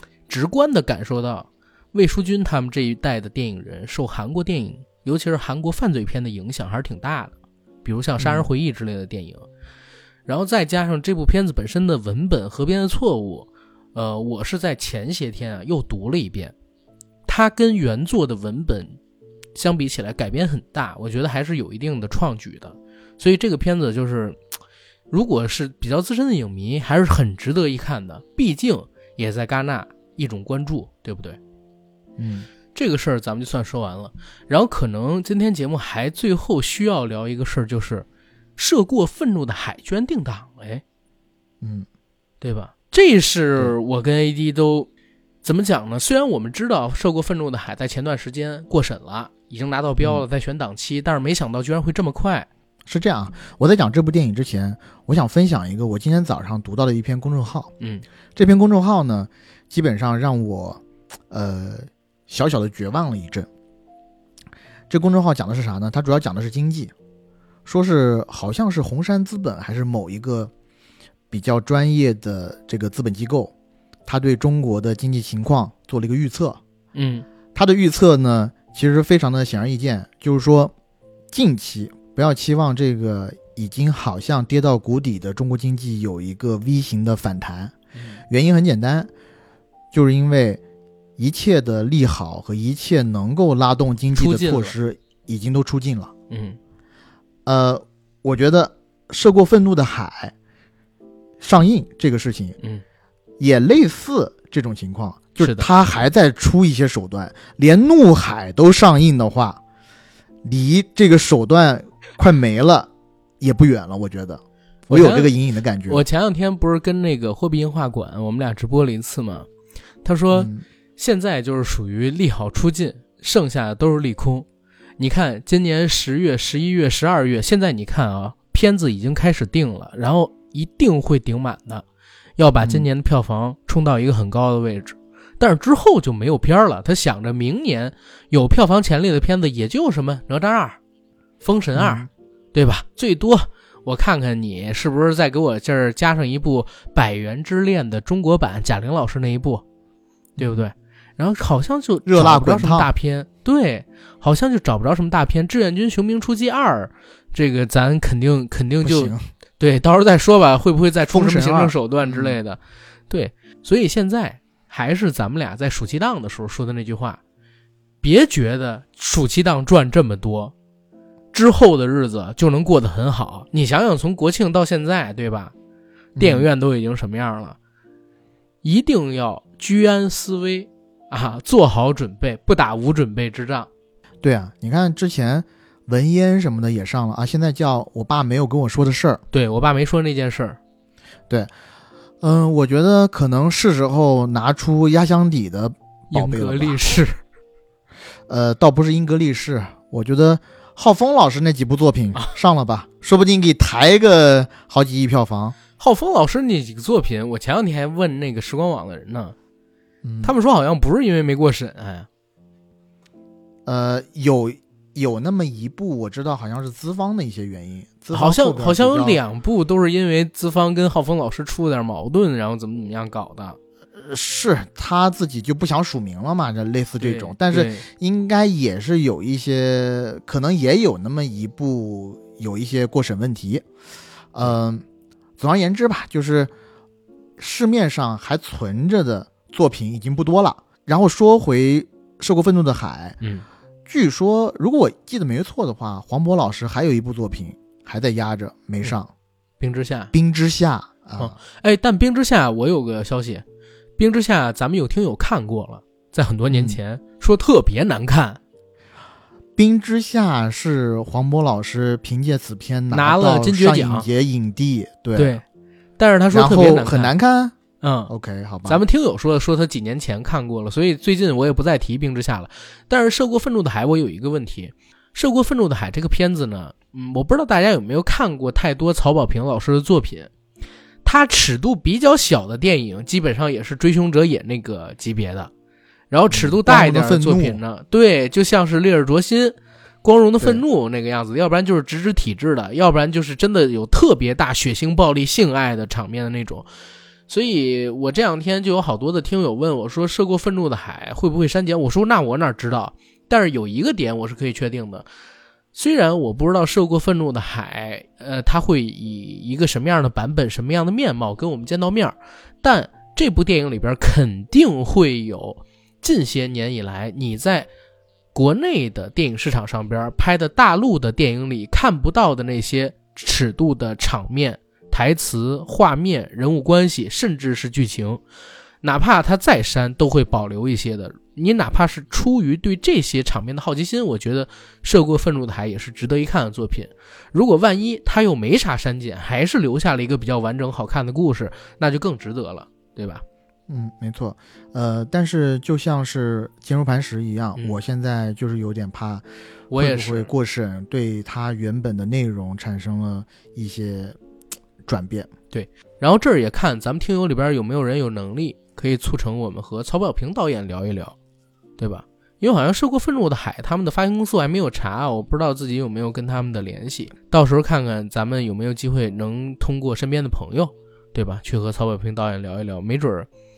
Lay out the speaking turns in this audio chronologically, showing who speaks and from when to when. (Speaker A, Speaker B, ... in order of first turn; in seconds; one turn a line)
Speaker A: 0.3-7.3
Speaker A: 7.8-9.5
Speaker B: 8.2-8.5
Speaker A: 10.2-16.5
Speaker A: 17.3-19.0
Speaker A: 19.5-24.4
Speaker A: 25.1-31.4
Speaker B: 32.2-32.5
Speaker A: 32.7-38.0
Speaker A: 38.6-40.8
Speaker B: 41.6-41.9
Speaker A: 42.4-44.9
Speaker A: 45.4-52.5
Speaker B: 52.9-57.7
Speaker B: 58.4-63.5
Speaker B: 64.9-66.9
Speaker B: 67.7-70.5
Speaker B: 71.3-73.5
Speaker B: 74.1-76.6
Speaker A: 76.9-77.2
Speaker B: 77.5-80.7
Speaker B: 81.3-87.7
Speaker A: 87.9-88.2
Speaker B: 88.3-89.1
Speaker B: 89.9-90.6
Speaker B: 91.2-96.1
Speaker A: 94.1-94.7
Speaker A: 96.3-96.6
Speaker B: 97.5-100.3
Speaker B: 101.4-102.6
Speaker B: 103.4-109.6
Speaker A: 105.4-105.7
Speaker B: 110.4-116.0
Speaker A: 114.9-115.3
Speaker A: 115.9-119.5
Speaker A: 120.0-124.5
Speaker B: 120.3-120.6
Speaker A: 125.0-131.8
Speaker A: 132.4-140.8
Speaker B: 132.6-132.9
Speaker A: 141.4-149.6
Speaker B: 141.7-142.1
Speaker B: 150.4-150.7
Speaker A: 150.4-167.2
Speaker B: 152.0-152.9
Speaker B: 158.8-159.2
Speaker B: 161.1-162.4
Speaker A: 168.0-170.5
Speaker A: 171.3-175.5
Speaker B: 176.2-176.5
Speaker A: 176.2-177.6
Speaker A: 178.6-183.7
Speaker B: 184.2-189.2
Speaker A: 189.3-190.6
Speaker B: 192.2-197.0
Speaker A: 196.1-197.2
Speaker B: 198.3-205.6
Speaker A: 205.8-209.3
Speaker B: 210.0-210.3
Speaker A: 210.2-212.1
Speaker B: 213.7-219.2
Speaker A: 218.1-223.6
Speaker B: 224.0-233.7
Speaker A: 227.0-227.9
Speaker B: 234.3-234.8
Speaker B: 235.4-236.5
Speaker B: 237.4-243.2
Speaker B: 243.9-249.1
Speaker A: 249.6-250.1
Speaker B: 250.1-251.3
Speaker A: 251.2-253.4
Speaker A: 254.0-258.4
Speaker B: 256.5-256.8
Speaker B: 259.6-265.4
Speaker A: 262.9-264.1
Speaker A: 265.1-265.4
Speaker A: 266.0-267.1
Speaker B: 266.3-267.6
Speaker A: 267.8-268.1
Speaker B: 268.1-268.8
Speaker A: 268.6-280.3
Speaker A: 281.0-285.5
Speaker A: 286.1-296.7
Speaker B: 286.3-287.6
Speaker A: 297.3-305.1
Speaker A: 305.7-317.7
Speaker A: 318.3-328.2
Speaker A: 328.8-343.2
Speaker B: 343.7-354.2
Speaker A: 349.7-350.3
Speaker B: 354.9-355.3
Speaker A: 355.5-361.1
Speaker A: 361.8-373.3